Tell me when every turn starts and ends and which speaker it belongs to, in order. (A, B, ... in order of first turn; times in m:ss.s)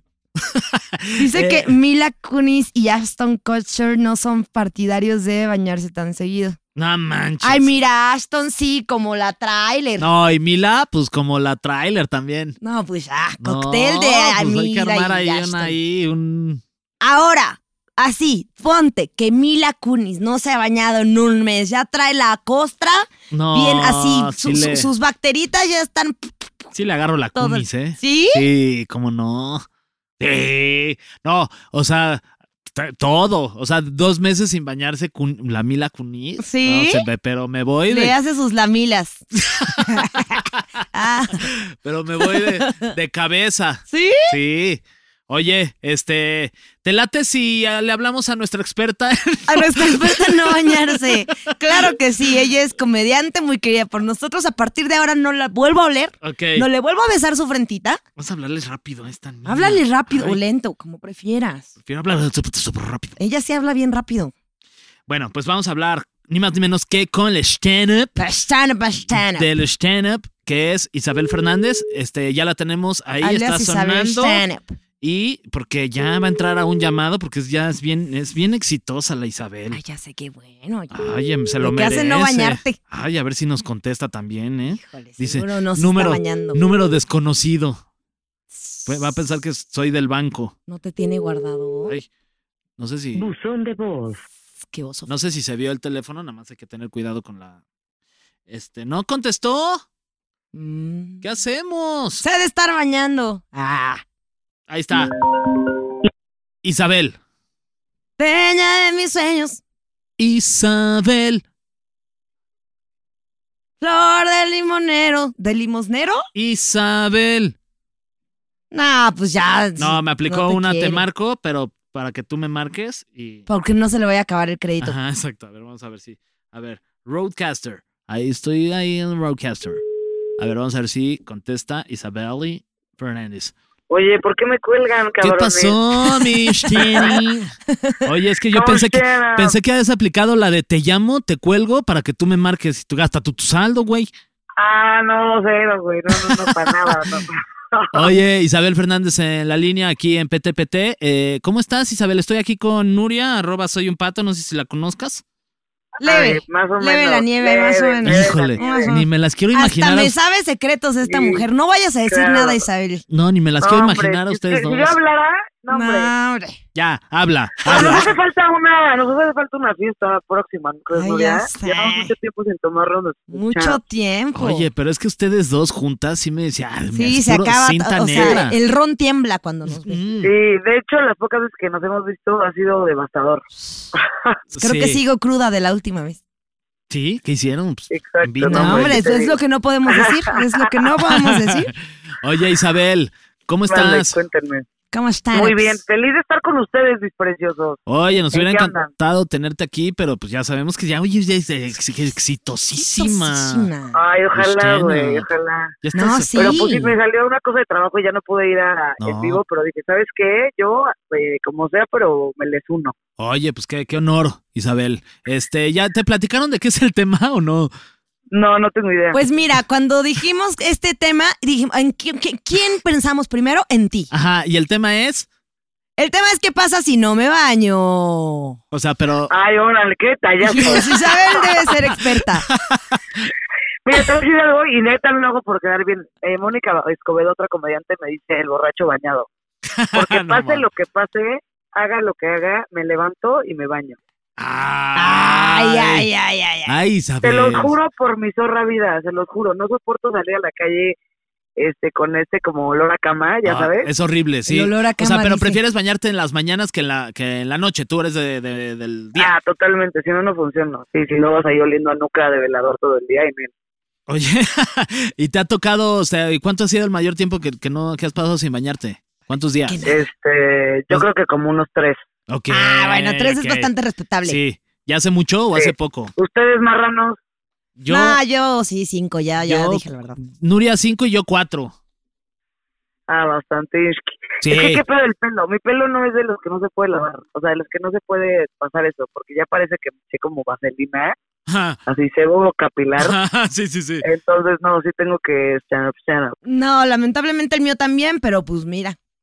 0:00.4-0:01.7 A
0:01.2-0:06.6 B
0:06.8-0:07.7 A
0:07.4-0:10.1 B
0:10.0-0:12.6 A
0:12.6-0:15.8 B
0:13.4-0:16.6 A
0:17.0-0:26.7 B
0:23.3-0:24.9 A
0:26.7-0:29.6 A
0:27.4-0:28.5 B
0:30.2-0:38.2 A
0:36.4-0:37.1 B
0:37.9-0:39.2 B
0:39.4-0:40.6 A
0:39.8-0:41.5 B
0:41.4-0:52.0 A
0:42.2-0:42.9 B
0:43.9-0:44.4 B
0:49.5-0:58.0 B
0:56.2-0:56.7 A
0:58.2-1:00.4 A
0:59.5-1:01.7 B
1:01.8-1:03.2 A
1:03.2-1:04.3 B
1:05.1-1:08.2 A
1:08.2-1:09.5 B
1:09.1-1:14.4 A
1:13.2-1:14.8 B
1:15.0-1:19.8 A
1:19.7-1:21.0 B
1:20.9-1:27.8 A
1:21.6-1:22.8 B
1:24.7-1:26.6 B
1:28.5-1:29.0 B
1:28.9-1:30.5 A
1:30.7-1:32.0 B
1:32.8-1:33.3 A
1:33.2-1:34.2 C
1:34.6-1:35.1 B
1:35.1-1:37.6 A
1:38.5-1:39.8 A
1:40.5-1:41.2 B
1:41.2-1:42.2 A
1:42.2-1:44.0 B
1:44.7-1:45.1 A
1:46.6-1:47.2 A
1:48.2-1:49.6 B
1:50.2-1:51.4 A
1:53.8-1:56.2 B
1:56.4-1:57.6 A
1:58.7-2:01.0 B
1:59.8-2:03.5 A
2:03.5-2:05.0 B
2:04.8-2:09.8 A
2:10.4-2:13.5 A
2:13.9-2:17.2 C
2:15.2-2:24.1 A
2:17.7-2:18.0 B
2:18.5-2:19.6 C
2:24.6-2:28.1 C
2:26.1-2:27.1 A
2:27.9-2:35.2 A
2:36.0-2:39.0 C
2:36.0-2:43.0 B
2:38.0-2:40.1 A
2:41.0-2:41.4 C
2:42.1-2:42.6 C
2:43.1-2:45.0 A
2:43.6-2:46.1 C
2:45.7-2:46.6 B
2:46.8-2:48.1 A
2:47.6-2:53.8 C
2:47.7-2:48.1 B
2:50.9-2:52.1 B
2:53.3-2:54.7 B
2:54.4-2:58.6 A
2:56.9-3:00.0 B
2:58.1-2:58.4 C
2:59.6-3:00.3 A
3:00.2-3:03.4 C
3:04.0-3:04.4 C
3:04.5-3:05.0 A
3:04.6-3:06.2 B
3:06.9-3:09.1 A
3:07.9-3:10.6 C
3:08.5-3:11.7 B
3:11.0-3:14.2 A
3:13.7-3:14.7 C
3:14.9-3:15.8 B
3:15.3-3:18.9 C
3:17.9-3:23.7 A
3:22.8-3:24.0 B
3:23.9-3:25.8 C
3:24.3-3:25.3 A
3:25.8-3:26.7 A
3:25.9-3:26.9 B
3:26.4-3:33.0 C
3:29.0-3:29.4 A
3:33.2-3:37.7 A
3:38.3-3:39.2 C
3:39.1-3:44.1 B
3:44.1-3:45.3 A
3:46.0-3:48.6 B
3:48.7-3:49.3 A
3:49.3-3:51.1 C
3:50.4-3:52.5 B
3:50.6-3:53.3 A
3:53.8-3:59.3 C
3:59.6-4:00.6 A
3:59.9-4:04.0 C
4:04.4-4:06.1 A
4:05.0-4:06.8 B
4:06.6-4:07.8 A
4:07.2-4:11.0 C
4:11.6-4:13.9 C
4:13.4-4:19.3 A
4:14.5-4:15.6 B
4:19.2-4:23.5 C
4:24.1-4:29.8 A
4:29.7-4:30.1 B
4:29.8-4:32.0 C
4:32.3-4:33.7 A
4:32.5-4:34.4 B
4:34.2-4:36.1 A
4:35.5-4:37.2 C
4:37.8-4:38.2 A
4:37.9-4:40.2 B
4:39.4-4:41.7 A
4:43.1-4:51.1 C
4:44.4-4:44.8 A
4:51.5-4:51.8 A
4:51.9-4:53.2 C
4:53.0-4:54.0 A
4:54.0-4:56.4 C
4:56.4-4:59.0 B